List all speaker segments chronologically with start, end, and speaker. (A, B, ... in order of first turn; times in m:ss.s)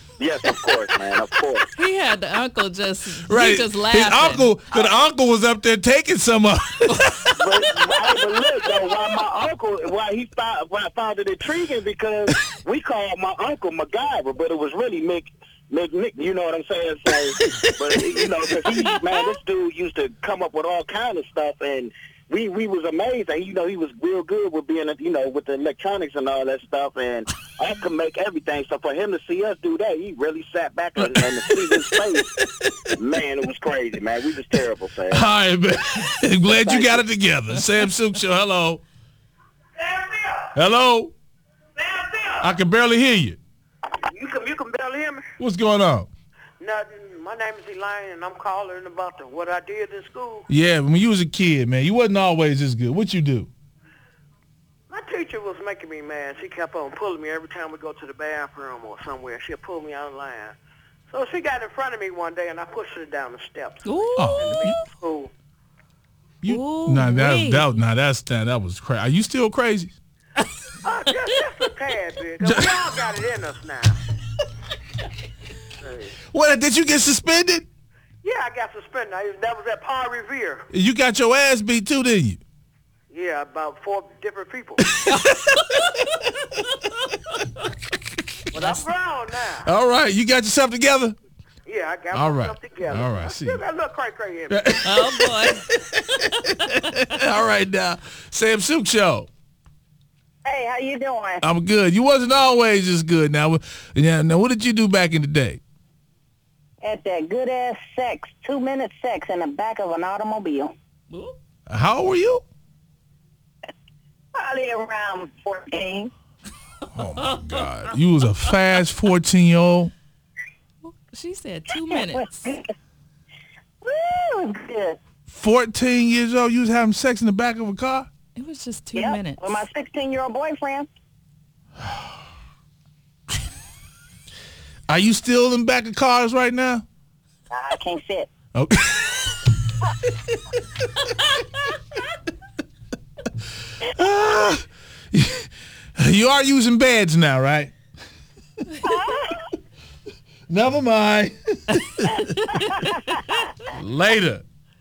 0:00.2-0:01.6 A
0:01.7-0:04.5 B
0:03.2-0:07.4 C
0:07.4-0:32.3 A
0:18.8-0:19.3 B
0:31.0-0:32.9 C
0:32.9-0:35.3 A
0:35.1-0:38.8 C
0:36.5-0:37.0 A
0:39.8-0:40.4 D
0:40.5-0:41.1 C
0:41.8-0:42.4 D
0:42.4-0:43.4 C
0:44.0-0:45.2 D
0:45.4-0:46.1 C
0:46.6-0:50.4 D
0:50.5-0:53.5 C
0:54.9-1:00.6 D
1:01.1-1:05.3 D
1:03.8-1:04.7 B
1:04.2-1:04.7 C
1:06.4-1:10.0 C
1:06.4-1:07.7 B
1:10.8-1:14.0 D
1:12.4-1:12.7 C
1:15.8-1:16.1 D
1:16.3-1:17.7 C
1:18.2-1:20.6 D
1:20.7-1:22.4 C
1:23.1-1:24.8 D
1:24.8-1:26.3 C
1:28.5-1:28.8 C
1:28.5-1:29.7 D
1:29.6-1:31.2 C
1:31.7-1:34.7 D
1:32.1-1:33.6 C
1:34.5-1:39.3 C
1:34.8-1:35.7 B
1:40.4-1:41.4 E
1:41.4-1:45.6 C
1:46.8-1:50.7 E
1:51.1-1:51.4 B
1:51.7-1:52.4 C
1:54.3-1:56.1 E
1:56.9-1:59.9 C
1:57.3-1:57.6 B
2:00.8-2:02.5 B
2:01.9-2:02.7 E
2:03.8-2:05.0 E
2:05.3-2:08.1 C
2:08.4-2:09.5 B
2:08.9-2:10.9 E
2:14.9-2:16.8 C
2:17.5-2:18.3 E
2:18.5-2:20.4 C
2:23.8-2:27.7 C
2:28.8-2:29.5 E
2:30.5-2:32.9 C
2:32.5-2:33.1 E
2:33.6-2:34.4 C